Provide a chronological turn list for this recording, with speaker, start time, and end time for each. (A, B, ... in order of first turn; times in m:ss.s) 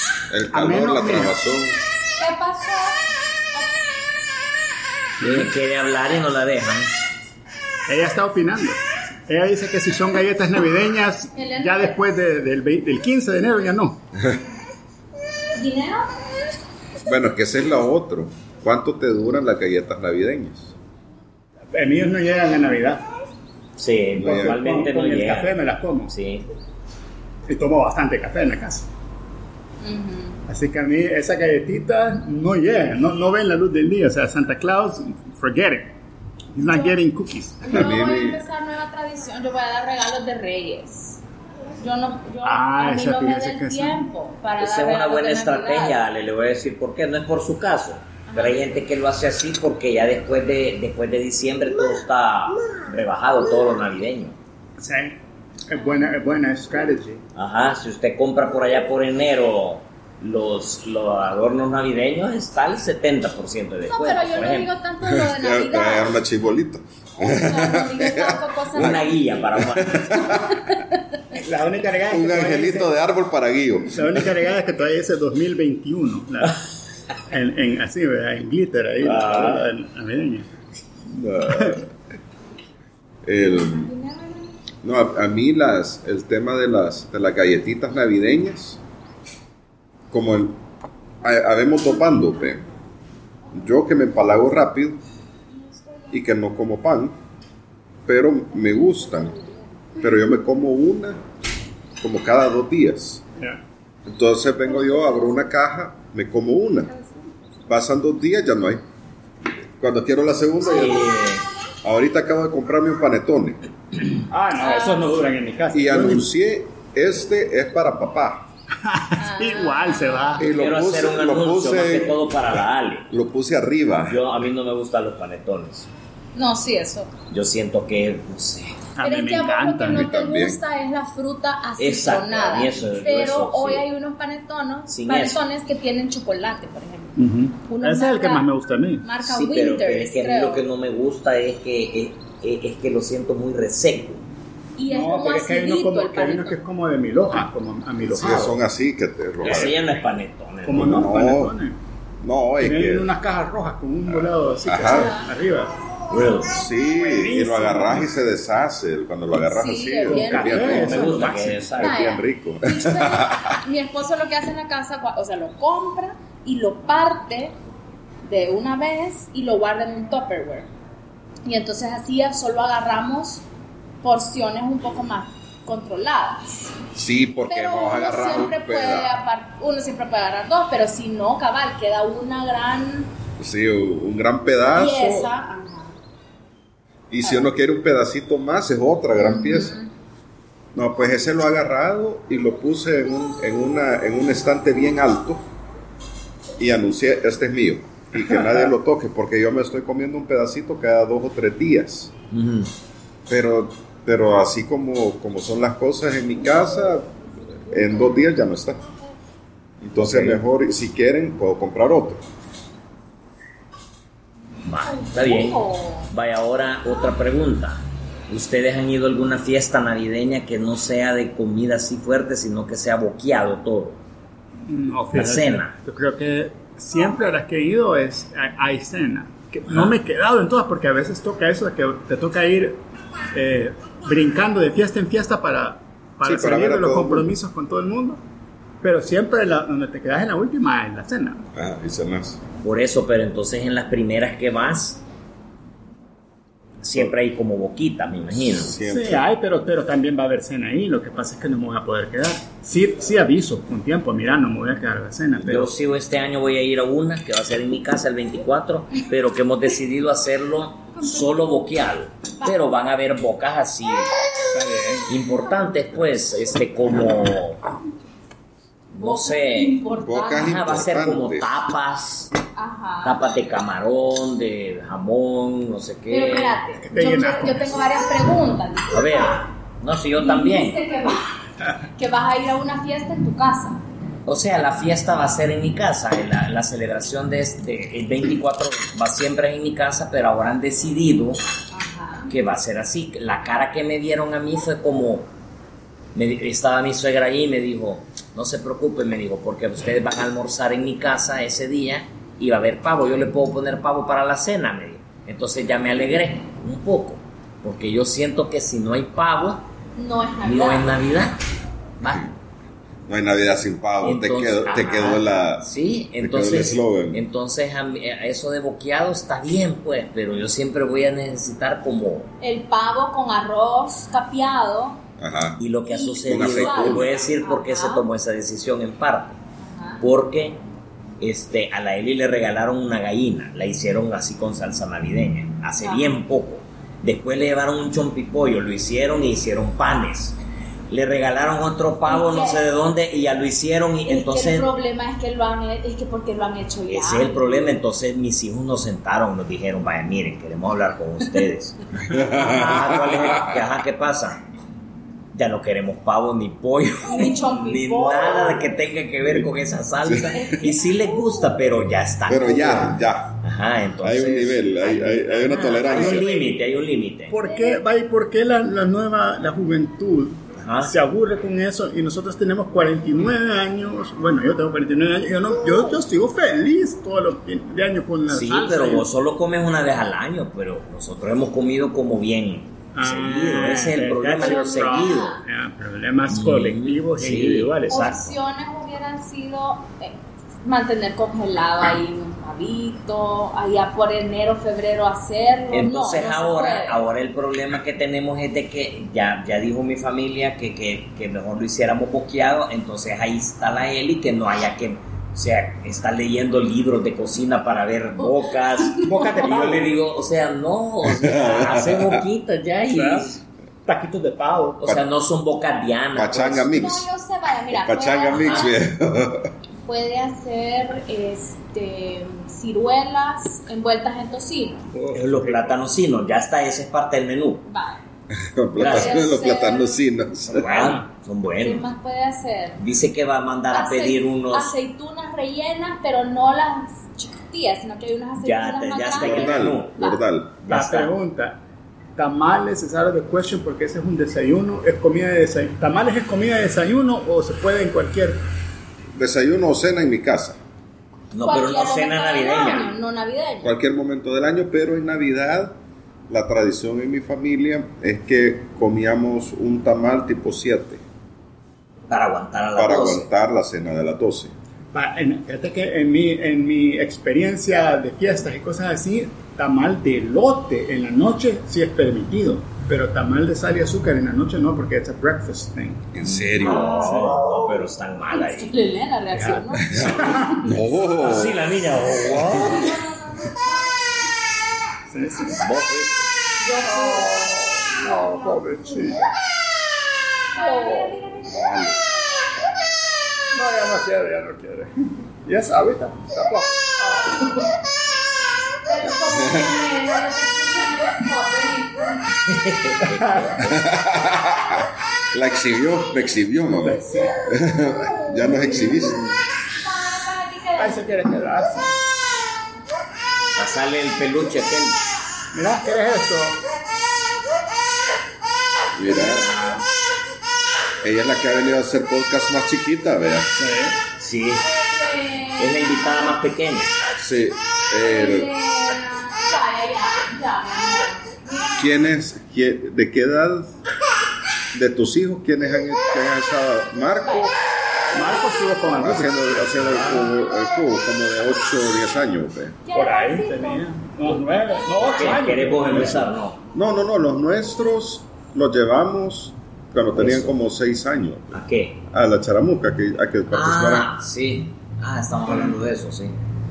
0:00.3-0:01.8 A
0:00.5-0:01.3 B
0:02.2-0:03.8 C
0:05.2-0:05.5 B
0:05.2-0:07.0 D
0:07.9-0:14.0 B
0:11.4-0:12.0 C
0:15.5-0:16.1 C
0:17.0-0:20.7 A
0:21.7-0:23.0 B
0:23.8-0:25.6 D
0:24.2-0:24.6 A
0:24.2-0:26.1 B
0:26.1-0:26.5 D
0:27.5-0:28.9 B
0:29.8-0:30.4 C
0:30.5-0:35.9 B
0:36.5-0:37.8 B
0:37.6-0:41.2 C
0:37.7-0:38.4 A
0:41.8-0:46.0 C
0:42.4-0:44.0 B
0:44.6-0:54.4 D
0:48.3-0:48.6 C
0:54.8-0:57.2 B
0:57.3-1:04.7 D
1:03.9-1:06.2 C
1:05.0-1:09.0 A
1:07.2-1:09.2 C
1:08.7-1:10.5 D
1:09.5-1:10.6 A
1:10.6-1:11.0 C
1:11.3-1:12.9 B
1:12.1-1:14.4 A
1:13.9-1:16.6 B
1:17.3-1:20.5 B
1:19.0-1:19.6 D
1:21.1-1:21.9 A
1:23.2-1:23.9 A
1:24.8-1:28.8 A
1:30.1-1:30.6 A
1:31.2-1:32.6 A
1:33.5-1:35.0 A
1:36.1-1:37.2 A
1:38.0-1:39.3 A
1:40.0-1:41.2 A
1:42.0-1:43.2 A
1:44.1-1:46.9 A
1:47.7-1:48.8 A
1:49.8-1:51.1 A
1:50.6-1:51.4 D
1:51.8-1:53.6 A
1:54.3-1:56.2 B
1:54.6-1:55.2 C
1:55.7-1:58.5 A
1:58.8-2:00.5 B
1:59.2-2:00.3 C
2:00.4-2:02.4 A
2:00.4-2:03.1 D
2:03.1-2:04.2 A
2:04.1-2:05.9 D
2:06.3-2:07.1 C
2:07.3-2:08.8 D
2:09.0-2:10.0 B
2:09.0-2:18.5 C
2:09.9-2:10.6 A
2:11.8-2:13.8 D
2:14.9-2:15.4 D
2:17.2-2:19.1 B
2:19.0-2:20.6 C
2:19.2-2:24.2 D
2:24.8-2:26.6 C
2:24.9-2:28.6 B
2:28.1-2:29.8 A
2:28.2-2:28.4 D
2:29.4-2:31.0 D
2:30.6-2:31.8 B
2:30.7-2:31.5 A
2:32.2-2:33.1 A
2:32.6-2:35.7 B
2:34.1-2:35.1 A
2:34.8-2:35.3 C
2:36.1-2:36.6 D
2:36.5-2:41.2 A
2:37.0-2:38.1 B
2:39.5-2:41.2 C
2:40.1-2:41.7 B
2:40.6-2:42.0 D
2:41.8-2:43.6 A
2:41.8-2:47.5 C
2:48.2-2:50.7 C
2:51.4-2:53.4 C
2:54.0-2:56.8 C
2:56.9-2:59.1 A
2:57.5-3:03.1 C
3:03.4-3:05.3 A
3:04.7-3:05.9 C
3:07.1-3:09.8 A
3:07.2-3:07.5 C
3:09.2-3:09.9 C
3:10.7-3:15.4 A
3:16.6-3:22.1 A
3:22.3-3:22.7 D
3:23.3-3:27.1 A
3:27.7-3:28.8 A
3:29.8-3:32.2 A
3:30.0-3:30.4 D
3:34.6-3:44.0 D
3:34.9-3:36.1 C
3:44.7-3:52.8 B
3:45.1-3:45.7 D
3:49.7-3:49.9 D
3:53.3-3:58.2 B
3:56.2-3:57.3 A
3:58.8-4:01.4 B
4:01.5-4:02.4 A
4:02.6-4:05.0 D
4:06.8-4:08.8 D
4:08.6-4:09.2 A
4:08.8-4:15.7 B
4:15.4-4:24.1 D
4:24.5-4:25.1 B
4:25.1-4:27.6 D
4:28.9-4:29.8 D
4:29.0-4:30.6 C
4:30.0-4:31.5 A
4:30.3-4:32.3 D
4:32.6-4:33.2 C
4:33.0-4:36.6 D
4:36.1-4:39.4 C
4:36.8-4:37.8 B
4:38.9-4:40.8 D
4:40.2-4:43.8 C
4:44.2-4:51.4 D
4:51.7-4:52.3 C
4:52.3-4:55.3 D
4:56.1-5:09.6 D
5:10.0-5:10.9 C
5:10.4-5:11.4 D
5:12.0-5:12.3 D
5:13.1-5:15.6 A
5:14.0-5:22.3 D
5:16.2-5:17.2 A
5:22.4-5:25.0 C
5:25.2-5:25.6 A
5:25.6-5:29.4 D
5:25.9-5:28.0 C
5:26.2-5:27.1 A
5:29.6-5:30.0 C
5:30.0-5:30.6 D
5:31.2-5:40.4 D
5:35.8-5:36.1 C
5:40.9-5:44.7 D
5:42.1-5:42.6 C
5:44.1-5:47.4 C
5:46.9-5:54.4 D
5:52.0-5:53.6 A
5:55.3-6:07.4 D
5:57.0-5:58.7 C
6:00.0-6:00.4 A
6:00.3-6:01.2 C
6:02.3-6:03.4 A
6:04.0-6:06.3 A
6:05.8-6:06.4 C
6:07.3-6:19.1 B
6:07.5-6:07.8 C
6:10.6-6:10.9 D
6:18.3-6:25.4 D
6:22.9-6:28.1 B
6:24.4-6:25.4 C
6:26.3-6:28.4 D
6:27.9-6:37.0 C
6:35.7-6:53.4 D
6:48.8-6:49.3 C
6:49.0-6:49.9 B
6:51.0-6:52.2 A
6:52.9-6:53.3 B
6:53.8-6:54.8 B
6:54.8-6:56.9 D
6:56.1-6:57.0 A
6:56.7-6:58.8 C
6:57.7-6:59.5 A
6:58.3-6:58.6 D
6:59.8-7:04.9 C
7:04.9-7:05.8 B
7:05.1-7:07.6 D
7:07.6-7:08.0 C
7:08.3-7:10.9 A
7:08.8-7:09.2 D
7:08.8-7:10.0 C
7:10.5-7:11.9 D
7:10.6-7:11.0 B
7:11.6-7:12.8 C
7:12.8-7:14.7 D
7:13.7-7:20.2 C
7:18.4-7:20.0 D
7:19.1-7:20.5 A
7:20.6-7:21.1 D
7:20.7-7:21.6 B
7:22.2-7:28.4 B
7:29.1-7:30.6 A
7:31.3-7:32.9 D
7:31.4-7:33.7 C
7:33.6-7:35.8 A
7:36.3-7:41.0 A
7:42.1-7:43.3 D
7:42.8-7:44.5 A
7:44.9-7:56.0 B
7:56.1-7:57.1 A
7:56.2-7:58.7 D
7:56.6-7:57.4 C
7:56.9-7:57.4 B
7:58.3-8:00.8 C
7:59.3-8:00.7 B
8:00.0-8:00.4 D
8:00.0-8:01.7 A
8:01.1-8:03.0 D
8:02.5-8:03.6 C
8:05.1-8:05.7 B
8:05.5-8:06.3 D
8:06.6-8:07.6 C
8:06.8-8:09.2 B
8:10.5-8:11.5 C
8:10.7-8:11.1 B
8:11.4-8:12.0 A
8:13.5-8:17.5 B
8:18.8-8:22.3 C
8:19.3-8:19.7 A
8:22.4-8:23.8 D
8:23.1-8:23.6 B
8:23.6-8:29.2 A
8:26.8-8:27.4 B
8:29.8-8:31.0 C
8:30.8-8:31.9 B
8:33.6-8:35.0 D
8:35.5-8:36.6 B
8:38.9-8:39.5 A
8:39.1-8:39.8 D
8:41.0-8:43.5 A
8:43.5-8:44.0 B
8:44.2-8:44.7 D
8:44.8-8:46.4 C
8:45.6-8:46.9 D
8:47.2-8:48.5 A
8:48.0-8:51.9 C
8:51.8-8:53.8 A
8:54.7-8:57.5 A
8:57.2-8:57.5 C
8:58.1-9:00.2 B
8:58.9-9:02.8 A
9:02.8-9:04.4 C
9:02.9-9:06.2 B
9:05.0-9:06.6 D
9:06.7-9:11.6 A
9:10.1-9:10.6 D
9:11.5-9:12.0 D
9:12.1-9:14.1 A
9:13.5-9:16.3 D